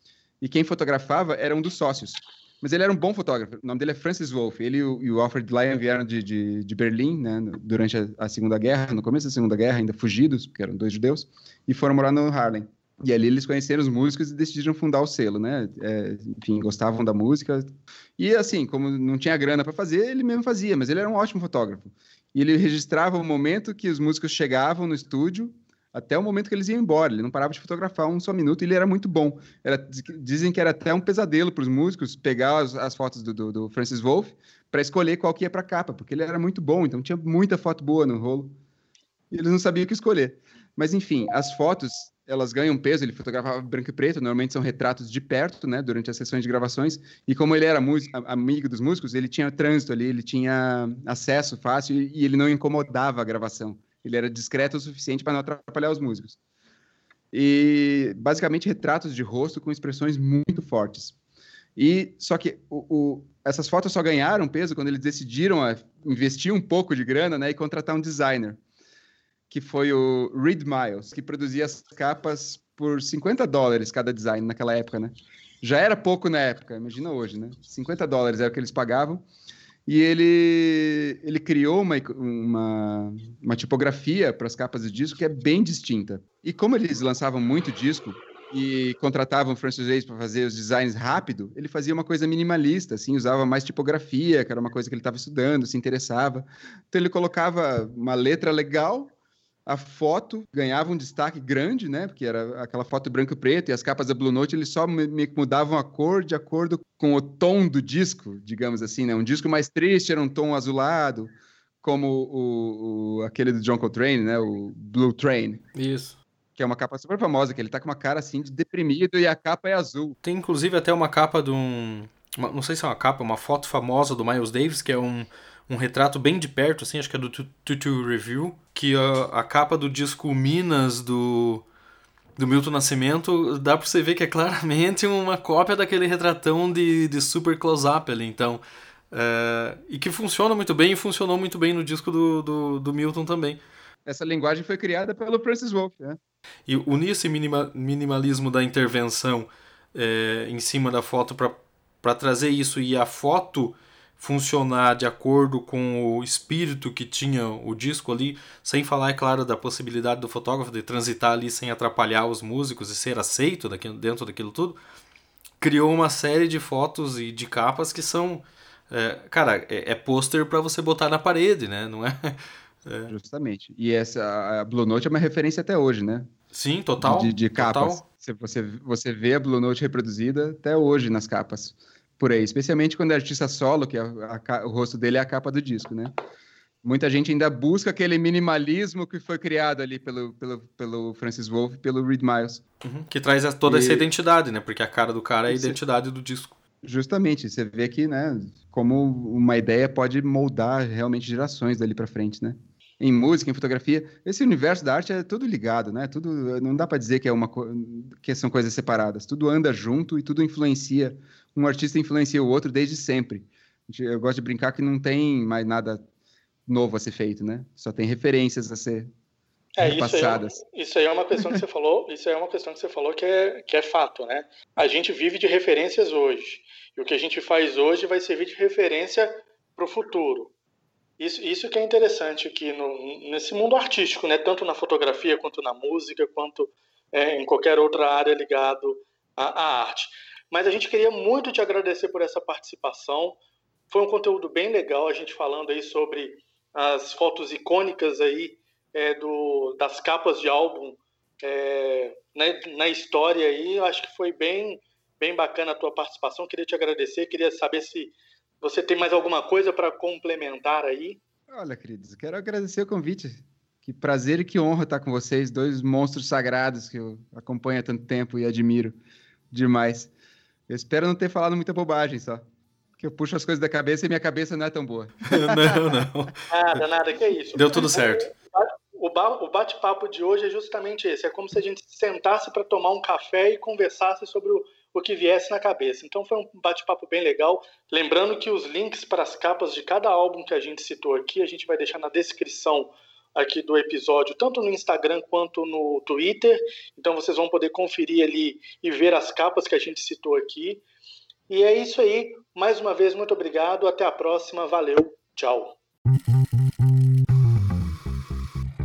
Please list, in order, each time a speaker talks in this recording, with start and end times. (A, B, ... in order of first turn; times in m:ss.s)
0:00.4-0:38.6 A
0:39.3-0:56.4 A
0:57.3-1:01.2 A
1:01.8-1:08.6 A
1:09.5-1:19.2 A
1:19.9-1:39.1 A
1:39.7-1:55.6 A
1:55.8-1:56.2 B
1:56.6-2:00.2 A
2:00.2-2:11.6 B
2:12.4-2:23.6 B
2:24.1-2:26.2 A
2:26.7-2:44.8 B
2:45.6-2:53.1 B
2:53.1-2:56.3 A
2:56.5-2:58.0 B
2:57.0-3:06.1 A
3:06.8-3:12.6 A
3:12.8-3:16.6 B
3:13.6-3:14.1 A
3:15.5-3:15.8 A
3:16.8-3:36.0 A
3:36.7-3:39.1 A
3:39.8-3:50.5 C
3:39.8-3:40.6 A
3:51.2-4:03.4 C
4:03.9-4:21.2 C
4:21.5-4:29.0 A
4:29.5-4:30.1 A
4:30.7-4:32.4 A
4:33.0-4:35.8 A
4:35.3-4:36.4 B
4:36.5-5:00.8 C
4:37.5-4:38.3 B
5:01.5-5:05.8 C